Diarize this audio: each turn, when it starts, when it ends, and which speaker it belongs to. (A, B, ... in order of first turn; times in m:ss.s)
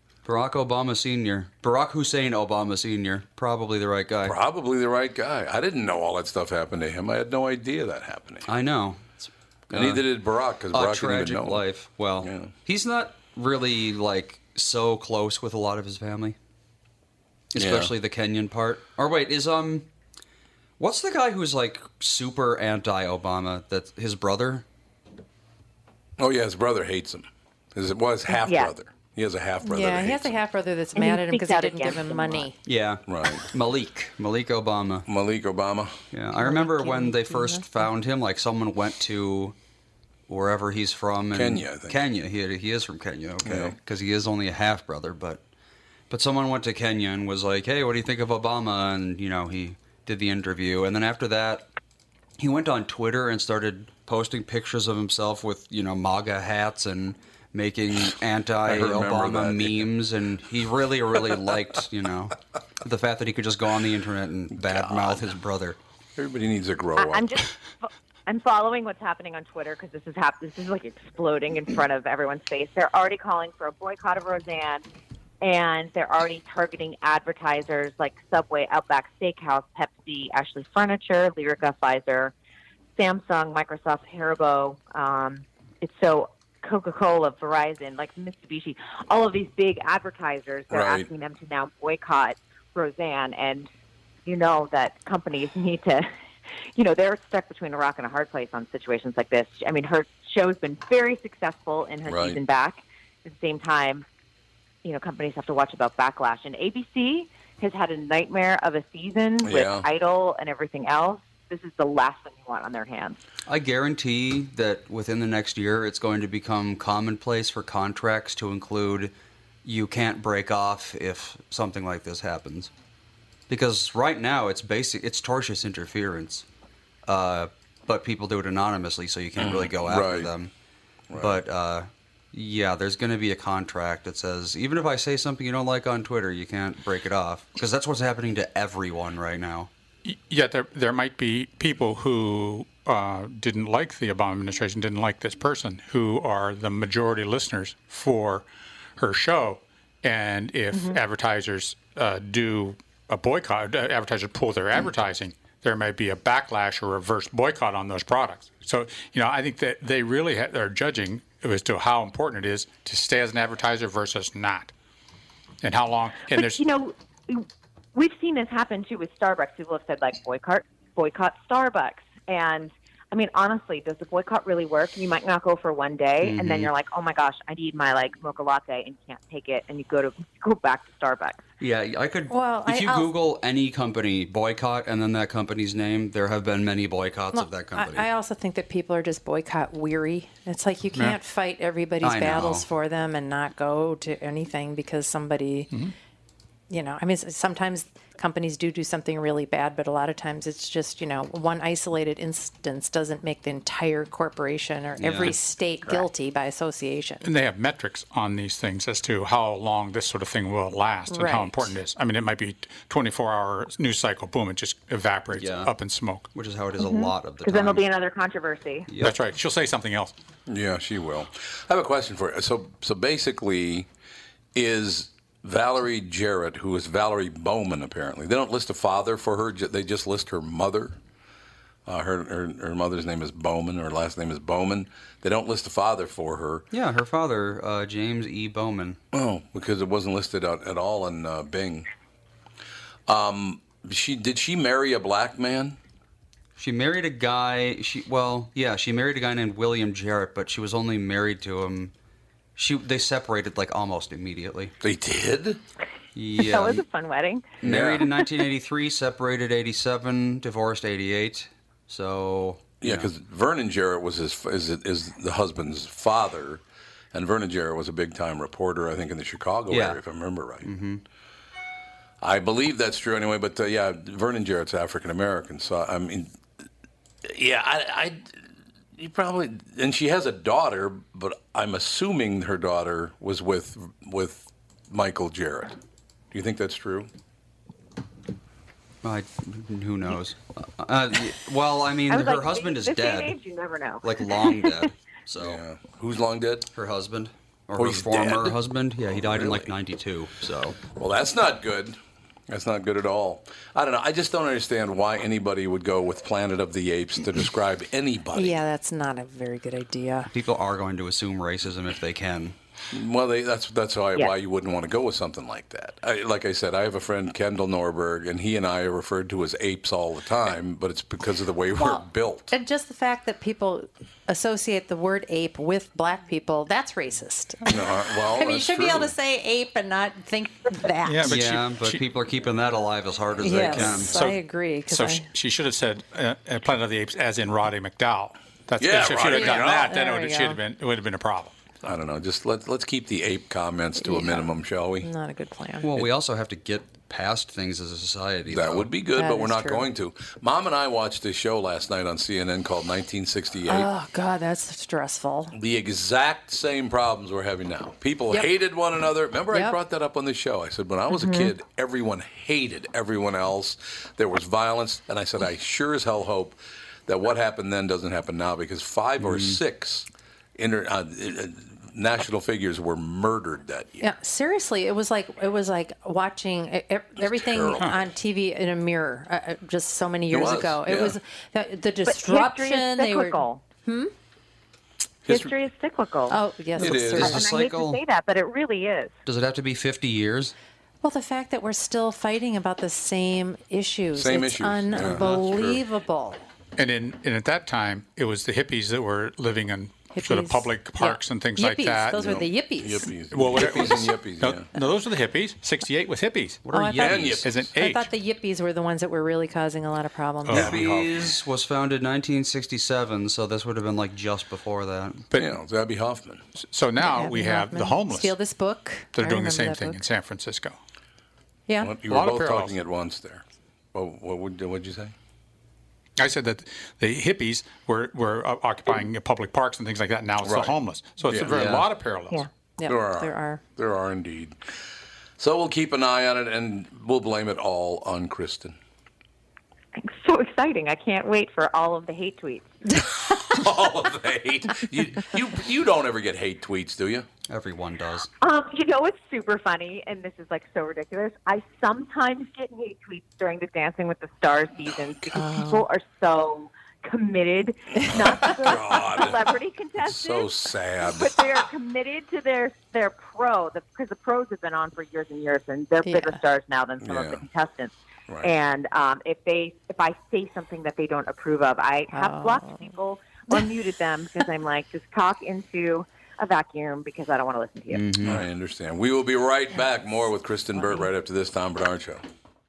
0:00.2-0:04.4 A
0:04.2-0:08.5 B
0:08.4-0:10.0 A
0:09.7-0:11.6 B
0:10.7-0:16.4 A
0:12.2-0:12.5 B
0:17.5-0:19.9 A
0:17.6-0:17.9 B
0:20.8-0:24.6 A
0:26.2-0:30.4 B
0:28.3-0:28.7 C
0:29.6-0:32.6 D
0:30.9-0:32.5 C
0:32.6-0:35.1 A
0:33.1-0:33.5 B
0:35.1-0:36.0 B
0:36.1-0:39.6 A
0:36.4-0:37.8 D
0:40.3-0:45.4 A
0:41.3-0:42.0 B
0:43.4-0:43.7 B
0:46.1-0:51.7 A
0:52.4-1:05.8 A
0:58.6-0:59.9 B
1:04.5-1:05.3 B
1:06.2-1:07.4 B
1:07.0-1:14.8 C
1:15.4-1:22.3 C
1:23.0-1:33.7 C
1:30.7-1:31.1 B
1:34.2-1:36.1 C
1:36.7-1:44.0 C
1:42.0-1:42.4 B
1:44.8-1:53.2 C
1:49.4-1:49.8 B
1:53.5-1:59.1 A
1:59.6-2:02.7 A
2:03.5-2:06.4 A
2:07.1-2:10.5 A
2:09.4-2:10.3 B
2:11.1-2:11.4 B
2:11.2-2:19.7 A
2:20.0-2:28.4 E
2:29.0-2:44.7 E
2:45.6-2:46.6 E
2:46.3-3:01.4 C
2:56.2-2:56.7 A
3:01.6-3:08.1 A
3:02.3-3:03.1 D
3:07.3-3:15.7 D
3:12.0-3:12.7 A
3:16.7-3:27.2 D
3:25.0-3:25.4 A
3:27.2-3:36.3 E
3:31.1-3:31.7 D
3:35.3-3:35.7 A
3:36.3-3:37.8 A
3:36.8-3:38.9 C
3:38.9-3:39.2 A
3:39.0-3:40.1 E
3:40.5-3:43.9 B
3:44.5-3:51.0 B
3:51.8-3:56.6 B
3:56.7-3:59.0 A
3:59.1-4:01.9 B
4:03.1-4:05.8 B
4:06.6-4:11.9 A
4:12.6-4:14.7 A
4:14.8-4:15.6 B
4:16.1-4:16.8 A
4:16.4-4:17.5 C
4:17.6-4:23.1 A
4:17.6-4:18.0 B
4:22.8-4:30.7 B
4:29.7-4:30.0 A
4:30.6-4:31.0 A
4:32.2-4:36.3 B
4:37.2-4:38.3 B
4:39.0-4:45.8 B
4:46.3-4:47.1 B
4:49.0-4:53.4 A
4:52.1-4:54.8 C
4:54.0-4:55.6 A
4:55.4-4:56.7 B
4:56.7-5:00.8 A
4:57.8-4:59.7 B
5:00.9-5:08.6 B
5:08.3-5:10.3 D
5:10.3-5:12.5 A
5:12.9-5:22.5 B
5:21.8-5:31.3 D
5:27.7-5:29.1 B
5:31.0-5:32.0 E
5:31.2-5:34.2 A
5:33.4-5:35.2 D
5:34.0-5:41.6 E
5:38.8-5:39.9 B
5:39.2-5:40.6 D
5:41.8-5:45.1 B
5:44.0-5:45.9 D
5:45.8-5:48.9 A
5:48.5-5:53.9 B
5:49.1-5:49.8 D
5:53.7-5:55.5 D
5:55.5-6:14.1 B
5:59.5-5:59.8 D
6:09.2-6:09.6 A
6:14.0-6:24.1 D
6:17.2-6:18.0 B
6:20.3-6:21.2 B
6:22.0-6:23.6 C
6:25.2-6:25.6 B
6:25.3-6:26.4 C
6:26.3-6:27.5 D
6:26.8-6:27.4 B
6:26.8-6:28.0 A
6:27.2-6:29.2 C
6:29.2-6:30.5 A
6:31.0-6:36.4 D
6:34.1-6:35.8 B
6:35.0-6:35.4 A
6:36.8-6:42.2 E
6:40.1-6:43.1 D
6:42.2-6:44.6 B
6:43.3-6:46.7 E
6:46.6-6:47.4 A
6:46.7-6:50.7 D
6:47.0-6:47.7 B
6:47.2-6:48.1 E
6:50.4-6:50.8 E
6:50.5-6:55.2 A
6:50.5-6:51.1 B
6:55.3-6:56.4 B
6:56.6-6:58.4 E
6:57.0-7:00.0 D
6:59.1-7:00.8 E
7:01.7-7:02.0 D
7:01.8-7:05.1 B
7:02.0-7:02.7 E
7:06.2-7:12.5 E
7:10.4-7:10.7 B
7:11.3-7:11.6 B
7:11.5-7:11.9 A
7:12.8-7:13.6 D
7:12.8-7:14.6 B
7:15.4-7:18.8 B
7:19.9-7:22.7 C
7:23.2-7:27.2 B
7:27.5-7:28.3 A
7:28.4-7:58.0 C
7:35.3-7:35.8 D
7:38.1-7:41.6 B
7:46.0-7:46.4 D
7:47.0-7:47.4 B
7:52.1-7:52.9 D
7:57.9-7:58.4 A
7:58.2-8:02.2 B